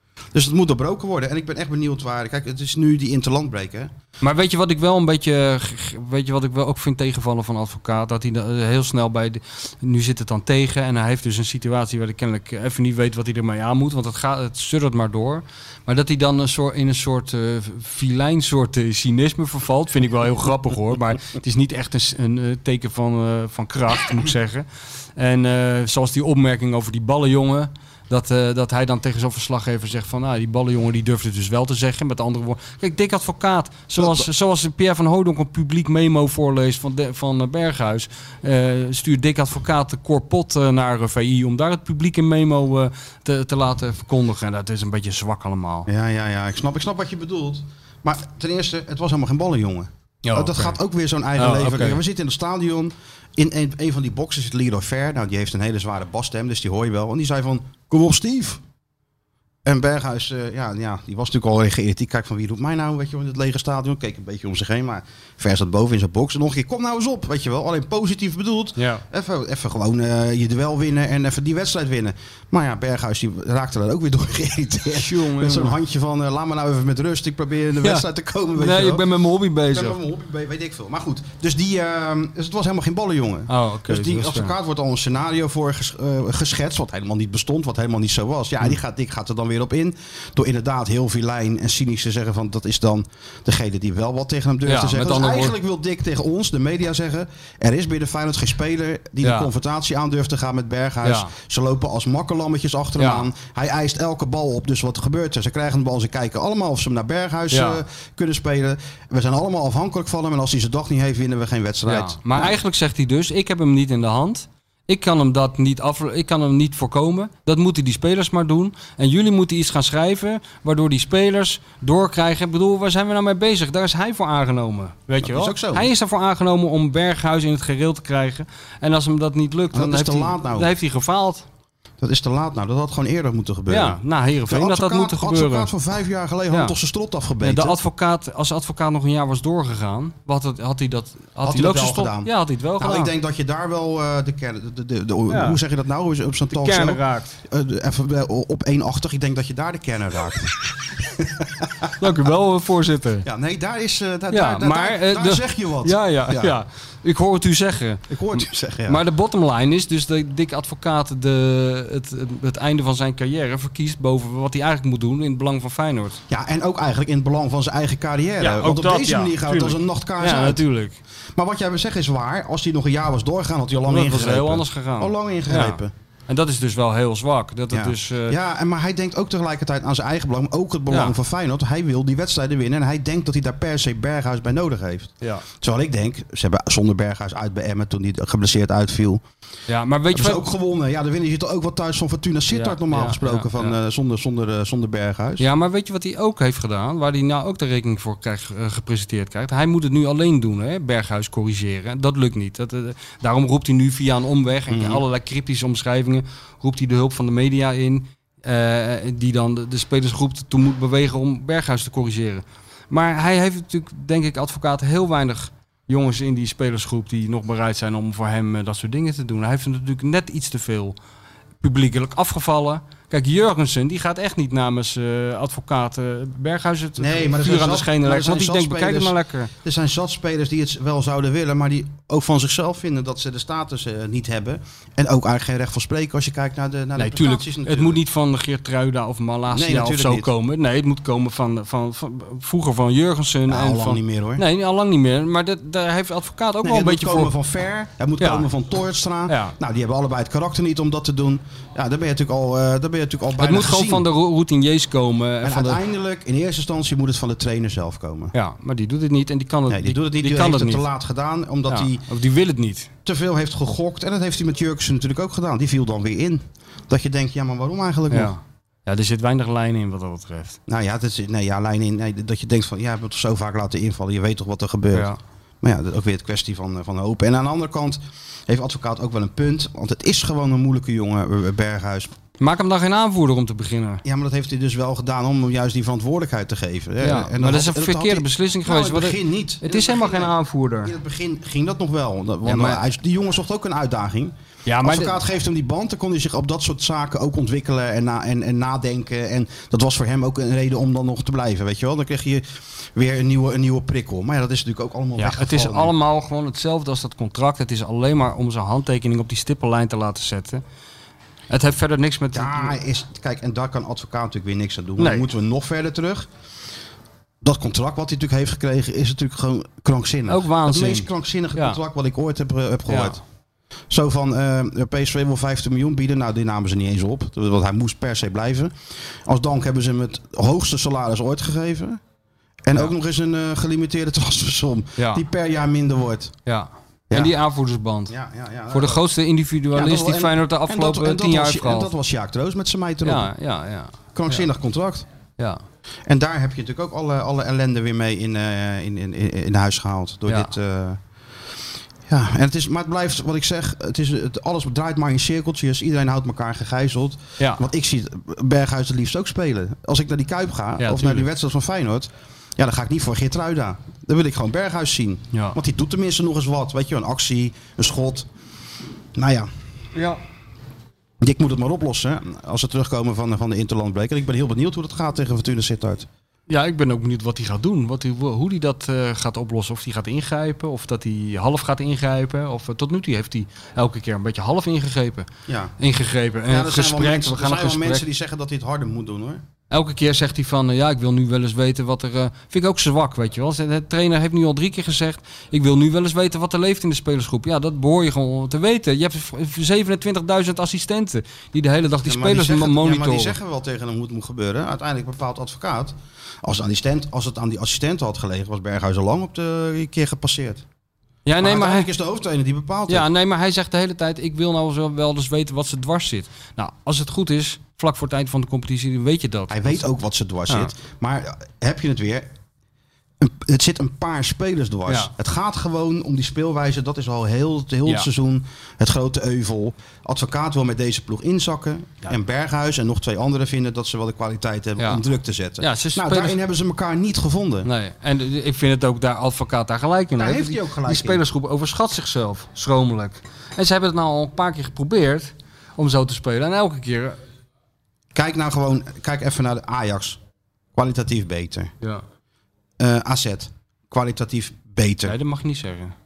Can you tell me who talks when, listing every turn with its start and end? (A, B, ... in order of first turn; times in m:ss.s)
0:00.3-0:03.9 A
0:04.2-0:45.9 B
0:34.0-0:34.3 A
0:45.9-0:58.6 A
0:50.2-0:50.8 B
0:51.4-0:52.0 B
0:59.6-1:19.1 A
1:08.8-1:09.0 B
1:14.9-1:15.8 B
1:18.6-1:20.0 B
1:19.7-1:52.5 A
1:23.5-1:24.5 B
1:34.6-1:35.6 B
1:39.2-1:39.5 B
1:41.0-1:41.3 B
1:43.0-1:43.3 B
1:47.5-1:47.8 B
1:51.8-2:11.4 B
2:05.2-2:05.9 A
2:09.7-2:10.7 A
2:12.0-2:17.8 A
2:13.7-2:15.7 B
2:17.4-2:23.1 B
2:21.4-2:31.9 A
2:25.3-2:25.6 B
2:26.5-2:27.4 B
2:32.0-2:33.2 B
2:33.2-2:36.6 A
2:34.3-2:46.2 B
2:38.1-2:39.0 A
2:46.3-2:50.6 A
2:48.4-2:51.0 B
2:51.4-2:55.9 A
2:53.9-2:58.4 B
2:57.7-3:09.2 A
3:00.9-3:01.2 B
3:09.7-3:10.4 B
3:10.1-3:15.4 A
3:12.5-3:13.8 B
3:15.4-3:41.0 B
3:24.7-3:25.0 A
3:41.6-3:49.5 B
3:47.0-3:58.0 A
3:57.0-4:07.3 B
3:59.5-4:00.3 A
4:03.5-4:04.4 A
4:06.6-4:14.1 A
4:08.2-4:08.5 B
4:09.3-4:09.6 B
4:13.4-4:15.8 B
4:15.4-4:18.3 A
4:18.3-4:20.8 B
4:19.7-4:22.0 A
4:21.7-4:22.9 B
4:23.0-4:28.3 A
4:28.1-4:30.6 B
4:30.7-4:35.1 A
4:34.9-4:35.2 B
4:35.6-4:42.1 A
4:42.4-4:44.0 B
4:44.0-5:05.9 A
4:47.0-4:50.9 B
4:52.4-4:52.8 B
4:54.6-4:55.2 B
5:05.2-5:10.6 B
5:11.5-5:12.8 B
5:12.3-5:16.3 A
5:15.0-5:15.3 B
5:17.4-5:23.2 A
5:20.3-5:21.8 B
5:22.9-5:23.2 B
5:23.9-5:28.7 A
5:29.2-5:32.0 A
5:32.6-5:36.3 A
5:35.0-5:35.2 B
5:36.4-5:38.1 B
5:37.1-5:37.3 A
5:38.1-5:39.0 A
5:38.7-5:41.9 B
5:39.7-5:43.3 A
5:43.0-5:44.4 B
5:44.1-5:45.0 A
5:46.1-5:51.0 A
5:50.3-5:50.5 B
5:52.1-6:08.3 A
6:00.8-6:01.3 B
6:09.1-6:09.5 A
6:09.9-6:10.2 B
6:11.2-6:16.1 A
6:16.5-6:25.3 B
6:25.5-6:25.7 A
6:25.8-6:28.0 B
6:26.5-6:29.4 A
6:29.7-6:43.3 B
6:42.0-6:50.6 A
6:51.2-6:51.9 B
6:51.4-6:53.1 A
6:52.9-6:59.9 B
6:59.5-7:02.3 A
7:03.2-7:17.7 A
7:15.6-7:16.4 B
7:17.6-7:27.2 B
7:20.2-7:21.2 A
7:28.1-7:30.2 A
7:30.7-7:31.7 A
7:32.8-7:35.2 A
7:35.0-7:35.9 B